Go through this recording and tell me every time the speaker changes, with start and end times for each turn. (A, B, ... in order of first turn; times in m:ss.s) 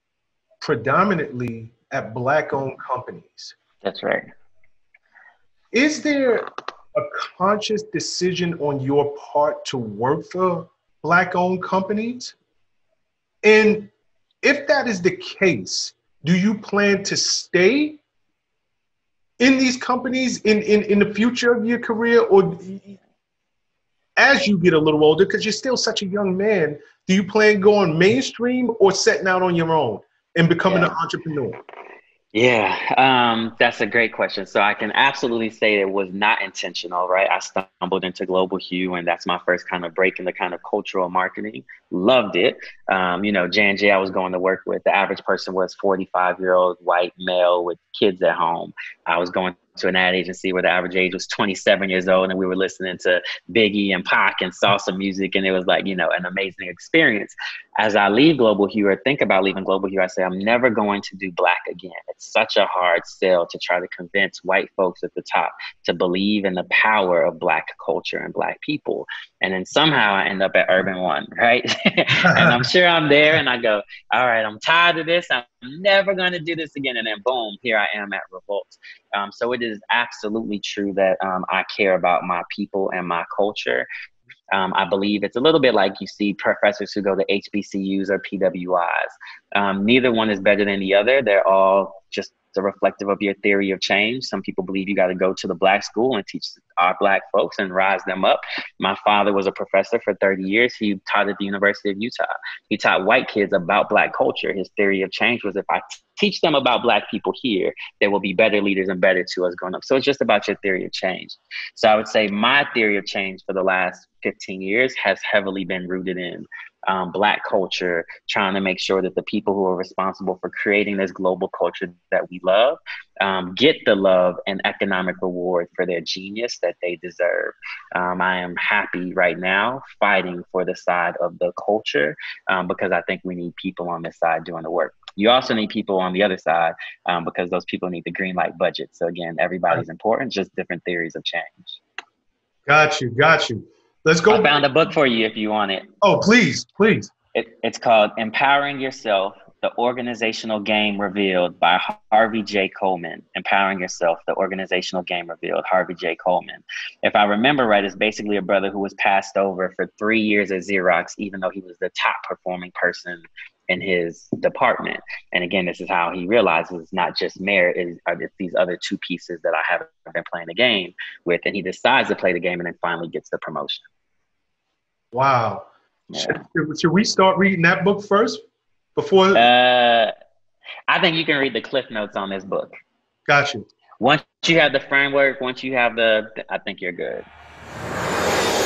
0:00.6-0:03.5 A
0:03.8-0:04.3 B
0:05.7-0:12.3 A
0:13.4-0:13.9 A
0:14.4-0:18.0 A
0:19.4-0:23.0 A
0:24.2-0:31.6 A
0:30.6-0:30.9 B
0:32.3-1:23.9 B
1:24.5-2:21.8 B
2:22.6-2:24.6 A
2:24.3-2:25.8 B
2:26.0-2:27.1 A
2:27.3-2:53.8 B
2:55.1-2:58.4 A
2:56.1-2:56.4 B
2:59.0-2:59.5 A
2:59.3-3:00.1 B
3:00.9-3:02.7 B
3:03.3-3:03.6 A
3:04.0-3:07.2 B